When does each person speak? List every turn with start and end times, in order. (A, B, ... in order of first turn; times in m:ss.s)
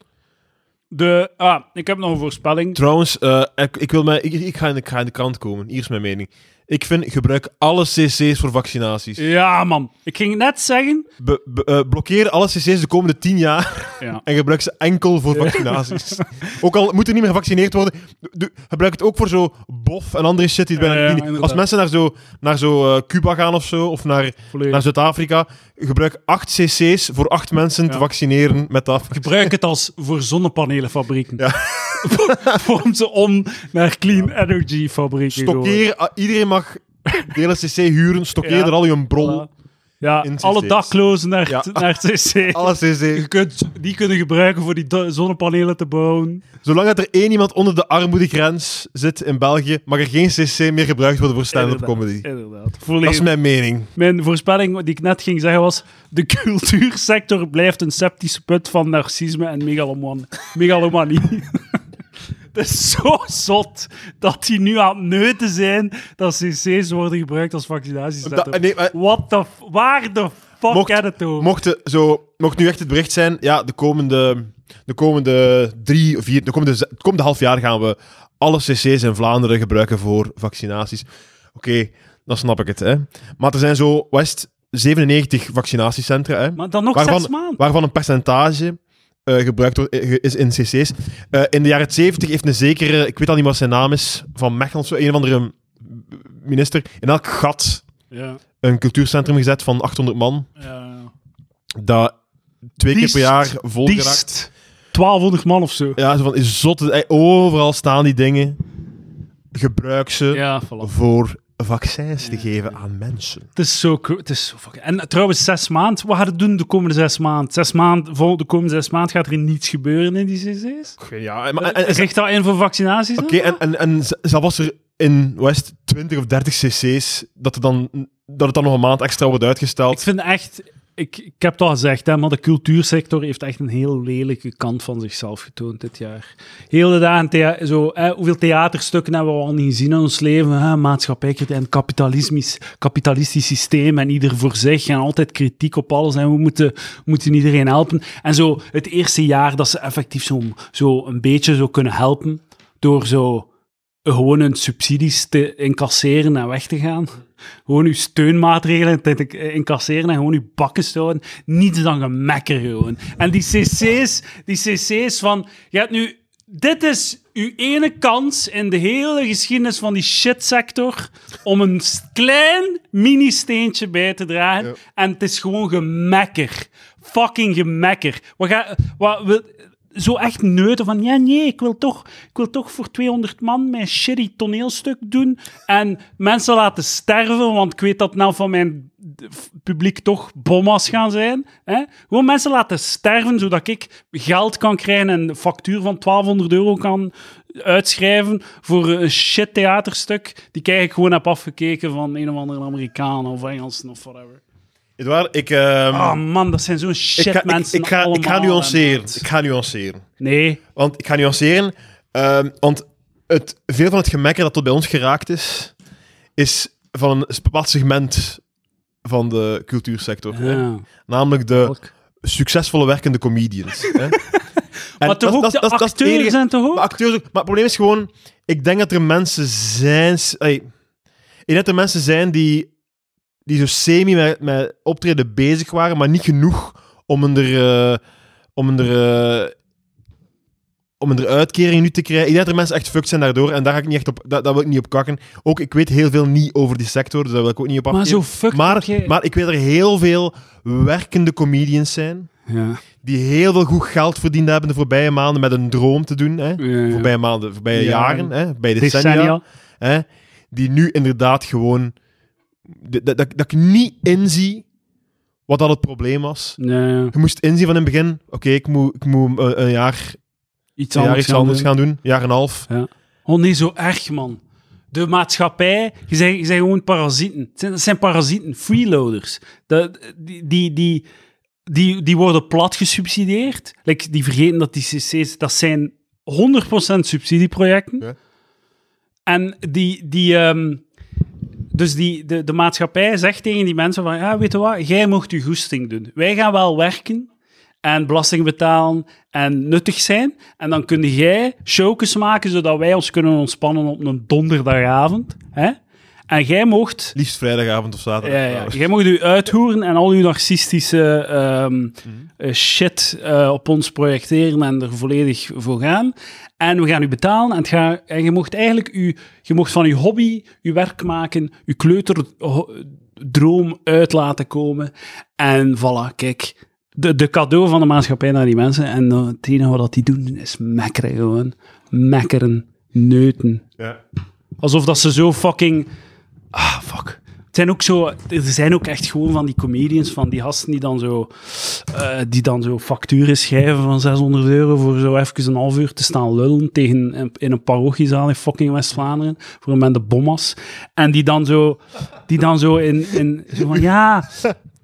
0:00.9-0:02.8 A
0:02.7-0:09.2 B
0:09.2-0:11.1 A
0:11.2-0:29.5 B
0:15.3-0:16.4 A
0:20.8-0:21.6 A
0:24.5-0:24.8 A
0:29.1-0:31.5 A
0:31.4-0:32.6 B
0:32.0-0:35.8 A
0:35.3-0:39.4 B
0:38.4-0:39.5 A
0:40.0-0:46.4 A
0:40.2-0:40.9 B
0:41.5-0:41.8 B
0:42.5-0:43.3 B
0:46.6-0:52.2 B
0:51.5-0:53.3 A
0:53.0-0:53.9 B
0:53.9-1:01.6 A
1:02.5-1:11.5 A
1:08.2-1:08.9 B
1:10.7-1:37.8 B
1:26.6-1:27.6 A
1:38.1-1:38.4 A
1:38.6-1:40.5 B
1:40.6-1:41.1 A
1:41.8-1:42.1 B
1:42.8-1:44.2 B
1:42.9-1:46.0 A
1:46.0-1:48.6 B
1:49.5-1:53.5 B
1:50.3-1:50.9 A
1:53.5-2:01.0 A
2:01.0-2:02.1 B
2:01.6-2:03.6 A
2:03.2-2:10.0 B
2:09.9-2:33.5 A
2:34.0-2:37.2 A
2:37.7-3:24.4 A
3:25.0-3:26.2 B
3:25.9-3:29.2 A
3:27.2-3:30.0 B
3:30.2-3:30.6 A
3:30.8-3:35.7 B
3:36.4-3:38.4 B
3:39.0-3:44.2 B
3:40.3-3:40.8 A
3:41.6-3:41.9 A
3:43.8-3:44.4 A
3:45.0-3:46.9 A
3:45.0-3:50.6 B
3:51.5-3:52.7 B
3:53.4-3:58.0 B
3:58.6-3:59.5 B
4:01.0-4:12.3 B
4:07.9-4:09.1 A
4:12.5-4:12.8 A
4:13.0-4:21.9 B
4:16.6-4:17.1 A
4:17.7-4:19.4 A
4:22.7-4:24.6 B
4:25.5-4:26.6 B
4:26.6-4:27.1 A
4:27.1-4:30.2 B
4:30.8-4:31.7 A
4:30.9-4:32.7 B
4:32.7-4:34.4 A
4:34.9-4:41.0 A
4:41.7-4:48.1 A
4:49.3-4:50.8 A
4:51.7-4:57.3 A
4:57.8-5:05.8 A
5:06.3-5:07.2 A
5:07.1-5:08.8 B
5:08.2-5:33.6 A
5:34.6-5:35.9 A
5:36.5-5:54.5 A